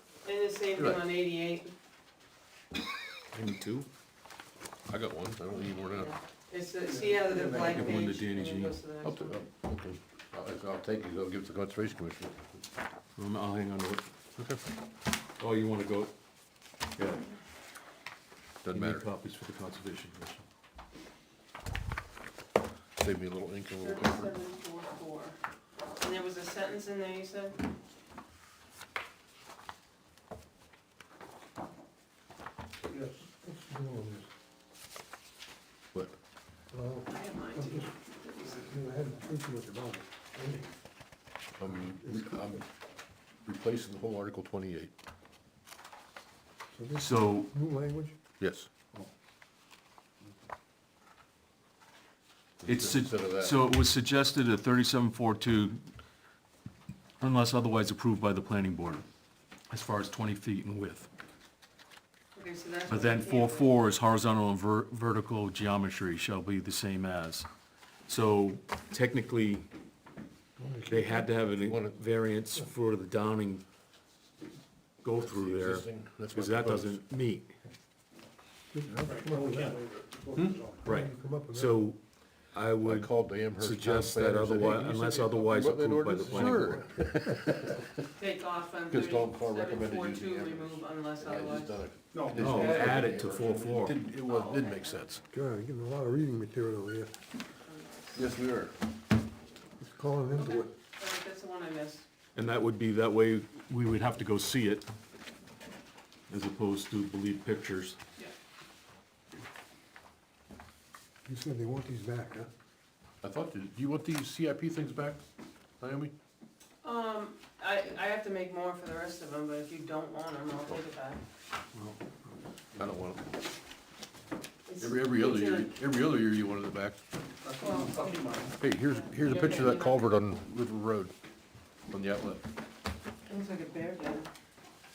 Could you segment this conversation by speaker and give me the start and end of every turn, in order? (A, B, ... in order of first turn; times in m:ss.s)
0:00.2-0:01.7 A
0:00.8-0:01.0 B
0:03.3-0:03.9 C
0:04.9-0:06.1 B
0:05.9-0:09.4 A
0:07.4-0:08.8 C
0:09.0-0:12.6 B
0:13.2-0:14.1 C
0:15.4-0:16.1 C
0:17.0-0:17.2 C
0:18.6-0:19.0 B
0:18.7-0:20.4 C
0:23.0-0:24.3 B
0:23.7-0:25.4 A
0:26.0-0:27.6 A
0:32.9-0:34.3 D
0:36.7-0:37.9 D
0:37.1-0:38.8 A
0:38.5-0:40.7 D
0:41.6-0:42.6 B
0:42.0-0:42.4 D
0:43.4-0:44.9 B
0:46.7-0:48.2 D
0:47.0-0:47.5 C
0:48.4-0:48.7 B
0:52.6-0:53.6 B
0:52.7-0:55.8 C
0:57.2-0:59.0 C
0:59.7-1:01.1 C
1:02.4-1:03.7 A
1:02.9-1:07.5 C
1:08.1-1:09.7 C
1:10.6-1:11.3 D
1:10.9-1:13.6 C
1:11.5-1:12.0 B
1:15.0-1:17.5 C
1:15.2-1:17.0 B
1:18.7-1:19.8 D
1:19.0-1:20.7 E
1:20.8-1:22.0 C
1:20.8-1:21.8 D
1:22.5-1:26.9 C
1:22.8-1:27.9 B
1:26.3-1:26.9 D
1:28.2-1:31.8 A
1:28.9-1:35.2 B
1:32.1-1:32.5 E
1:32.3-1:34.0 C
1:34.2-1:35.2 A
1:35.3-1:37.1 D
1:37.7-1:38.2 A
1:38.2-1:38.8 B
1:39.8-1:40.7 D
1:40.4-1:42.1 A
1:42.4-1:44.9 C
1:46.3-1:48.0 C
1:51.3-1:52.5 D
1:53.2-1:55.2 B
1:55.8-1:56.1 B
1:56.8-2:01.2 A
2:02.8-2:03.2 B
2:04.7-2:05.7 A
2:04.8-2:07.0 B
2:07.4-2:08.5 E
2:07.6-2:08.3 A
2:08.6-2:11.1 B
2:08.9-2:10.0 A
2:11.9-2:12.4 B
2:13.3-2:14.3 A